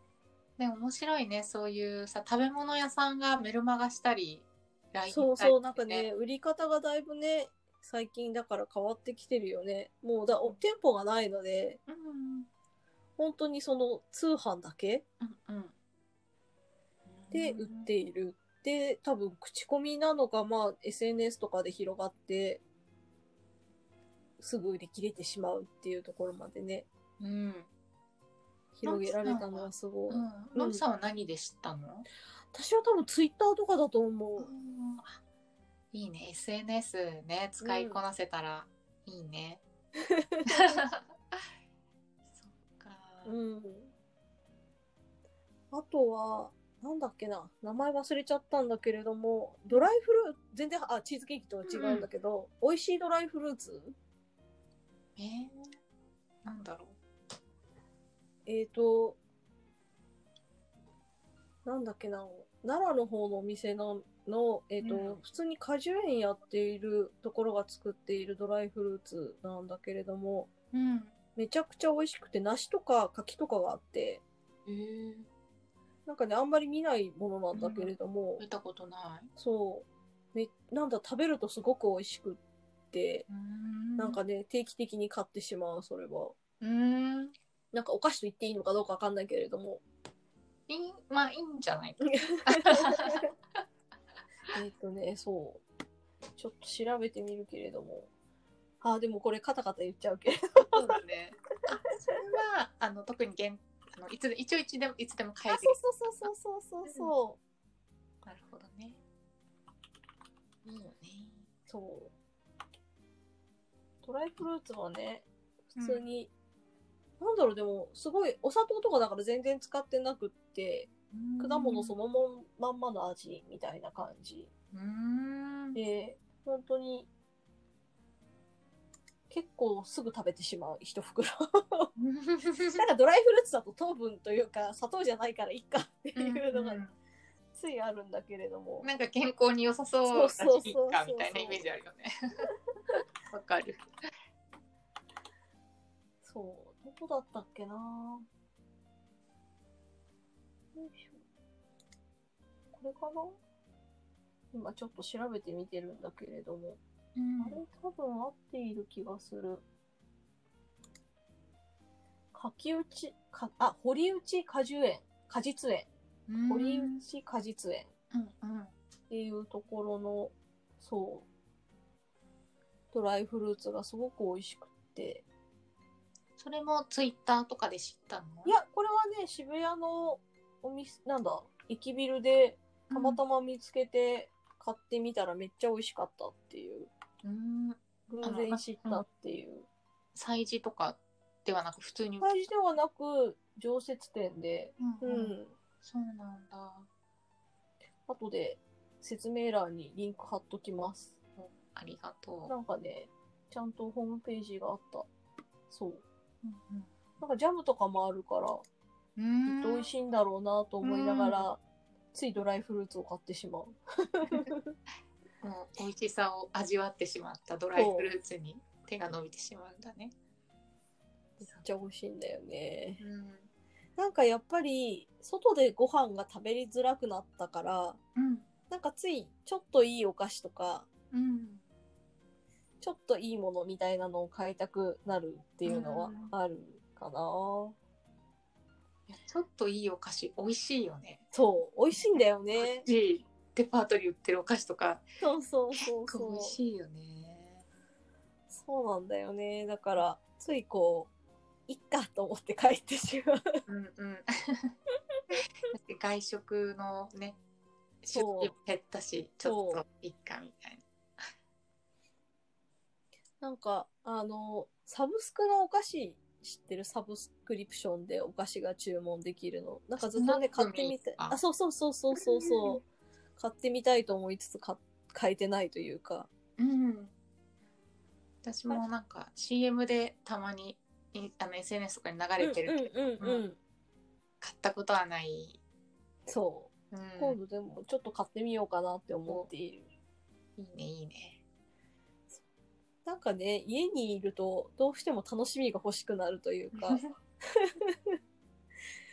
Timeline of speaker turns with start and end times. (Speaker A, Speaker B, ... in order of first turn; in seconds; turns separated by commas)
Speaker A: 0.6-6.1, Speaker B: 5.1-11.8, Speaker A: 11.9-12.5, Speaker B: 13.2-15.0, Speaker A: 15.2-15.7, Speaker A: 17.1-17.9, Speaker B: 17.3-22.6, Speaker B: 24.4-26.9, Speaker A: 27.2-27.7, Speaker B: 28.8-30.8, Speaker A: 28.8-32.0, Speaker B: 32.5-34.5, Speaker A: 34.4-35.1, Speaker A: 35.9-39.6, Speaker B: 37.6-38.0, Speaker B: 40.1-40.8, Speaker A: 40.5-41.0, Speaker A: 42.3-43.3, Speaker B: 43.2-43.9, Speaker B: 45.7-54.0, Speaker A: 51.7-52.1, Speaker A: 55.2-55.7, Speaker A: 56.4-57.0, Speaker B: 58.5-59.2, Speaker B: 61.6-70.5, Speaker A: 64.8-65.2, Speaker A: 70.7-71.1, Speaker B: 71.3-74.2, Speaker A: 74.7-75.3, Speaker B: 76.0-78.4, Speaker A: 77.5-79.3, Speaker B: 79.4-82.4, Speaker B: 82.9-83.2, Speaker A: 83.3-84.2, Speaker B: 84.0-86.3, Speaker A: 86.6-87.3, Speaker B: 87.7-89.8, Speaker A: 90.7-93.2, Speaker B: 92.2-93.3, Speaker B: 94.5-95.6, Speaker B: 96.4-98.1, Speaker B: 98.8-100.9, Speaker A: 100.7-105.8, Speaker B: 105.5-107.4, Speaker A: 106.8-107.1, Speaker A: 108.2-109.0, Speaker A: 110.6-111.5, Speaker B: 111.7-112.1, Speaker B: 114.0-116.3, Speaker A: 115.8-116.0, Speaker B: 117.2-124.5, Speaker A: 121.1-121.9, Speaker A: 124.7-125.8, Speaker B: 125.7-127.1, Speaker B: 129.3-131.9, Speaker A: 132.0-132.8, Speaker B: 132.6-136.8, Speaker A: 136.2-136.9, Speaker B: 137.5-138.9, Speaker A: 138.8-142.4, Speaker B: 140.1-141.7, Speaker A: 143.3-143.8, Speaker B: 146.2-148.2, Speaker B: 150.7-151.2, Speaker B: 152.7-153.4, Speaker B: 154.5-156.8, Speaker A: 157.2-157.6, Speaker B: 157.4-159.6, Speaker B: 162.3-165.9, Speaker A: 166.3-167.0, Speaker B: 166.5-167.9, Speaker A: 168.1-168.7, Speaker B: 169.1-171.2, Speaker B: 172.9-175.2, Speaker A: 176.4-178.5, Speaker B: 178.4-186.9, Speaker A: 182.9-183.2, Speaker A: 187.2-189.0, Speaker B: 188.1-189.7, Speaker A: 190.1-192.5, Speaker B: 192.2-195.5, Speaker A: 194.8-196.9, Speaker B: 198.1-201.1, Speaker A: 201.4-202.5, Speaker B: 202.5-205.1, Speaker B: 205.7-206.0, Speaker A: 206.4-206.9, Speaker B: 207.2-208.6, Speaker A: 209.2-209.9, Speaker B: 209.5-211.6, Speaker A: 210.8-211.5, Speaker B: 212.1-214.7, Speaker A: 215.4-220.1, Speaker B: 217.7-218.1, Speaker B: 221.4-223.0, Speaker A: 223.0-223.5, Speaker B: 224.0-228.0, Speaker A: 228.2-228.4, Speaker B: 228.7-230.8, Speaker A: 231.1-231.6, Speaker B: 232.8-237.7, Speaker A: 235.7-236.3, Speaker A: 239.1-241.2, Speaker B: 241.3-242.8, Speaker A: 241.9-245.0, Speaker B: 245.2-246.6, Speaker A: 245.8-247.6, Speaker B: 248.5-251.1, Speaker B: 251.7-253.6, Speaker A: 253.7-254.7, Speaker A: 255.7-257.4, Speaker A: 258.0-260.8, Speaker B: 258.1-258.5, Speaker B: 259.4-259.8, Speaker B: 263.4-272.8, Speaker A: 270.0-271.4, Speaker A: 272.1-272.8, Speaker B: 273.4-276.3, Speaker A: 276.6-277.1, Speaker A: 278.4-283.4, Speaker B: 282.4-283.6, Speaker A: 284.4-285.6, Speaker B: 286.3-289.9, Speaker A: 286.9-287.4, Speaker A: 290.6-291.4, Speaker B: 293.0-297.0, Speaker A: 296.7-297.1, Speaker B: 297.6-297.9